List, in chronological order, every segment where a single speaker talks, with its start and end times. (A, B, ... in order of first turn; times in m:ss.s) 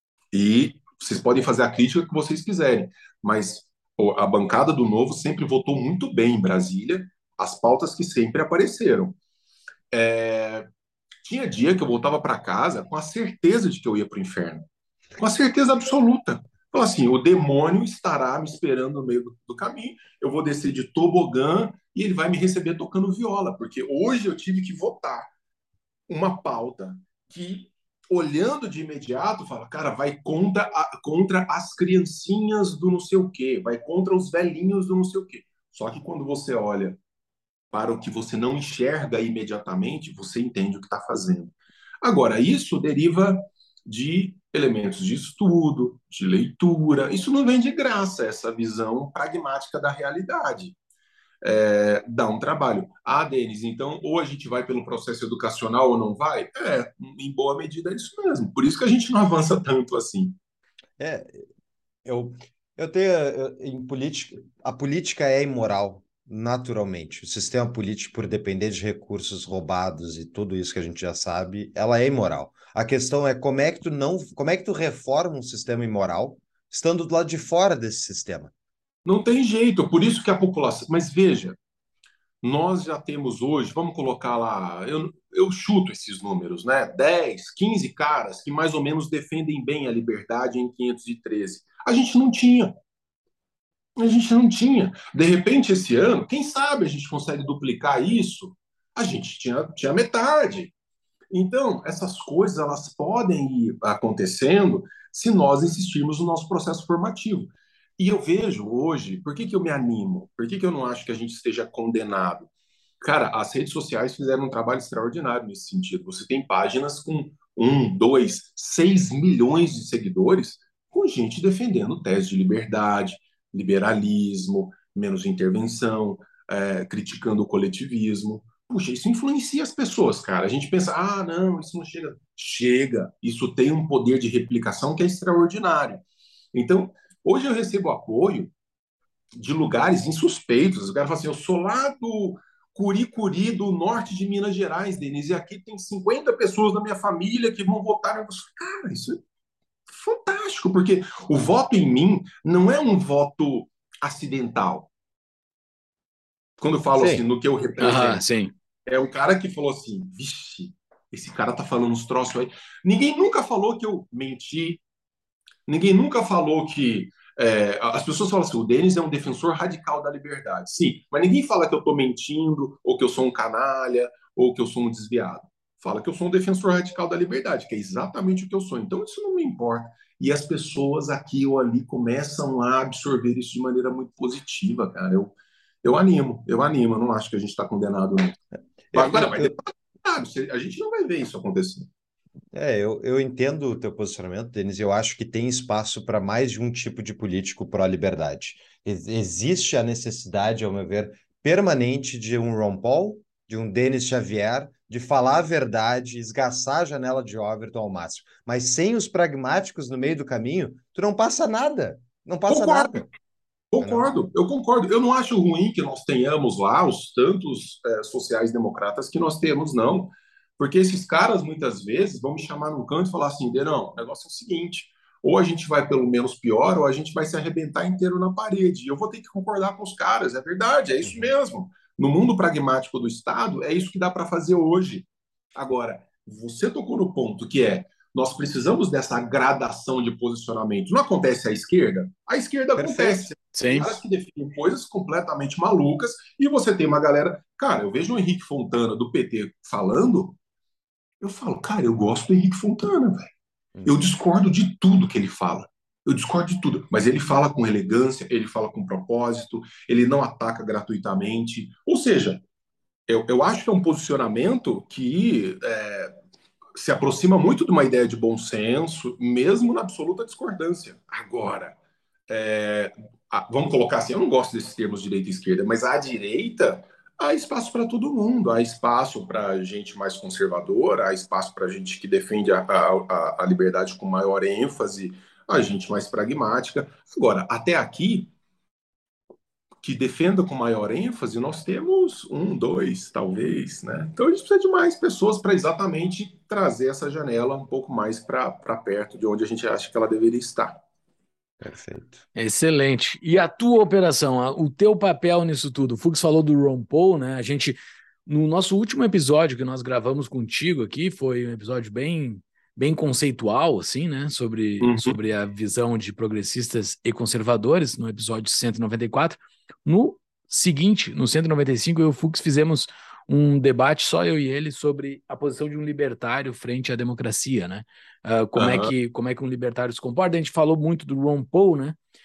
0:00.3-0:09.2 A
0:09.9-0:10.7 A
0:11.2-0:14.6 A
0:15.2-0:25.3 A
0:26.1-0:37.0 A
0:37.7-0:50.8 A
0:51.4-1:00.4 A
1:01.0-1:01.4 B
1:02.0-1:18.5 B
1:19.0-1:21.6 A
1:22.4-1:32.7 A
1:34.0-1:40.7 A
1:41.3-1:52.5 A
1:53.0-2:18.5 A
2:19.3-2:29.2 A
2:29.9-2:34.9 A
2:36.6-2:38.2 A
2:37.0-2:37.2 B
2:37.8-2:38.5 C
2:38.9-2:44.8 A
2:45.7-3:08.4 A
3:08.9-3:09.5 B
3:08.9-3:11.9 A
3:12.5-3:33.0 B
3:32.5-3:33.1 A
3:33.7-4:10.4 A
3:51.0-3:51.3 B
4:02.8-4:03.3 B
4:03.5-4:04.0 C
4:11.2-4:13.3 A
4:13.8-4:22.4 A
4:23.1-4:26.1 A
4:26.8-4:31.7 A
4:32.3-4:48.3 A
4:49.8-5:00.8 A
5:01.6-5:02.2 B
5:02.3-5:32.0 C
5:14.8-5:15.2 A
5:28.5-5:28.9 A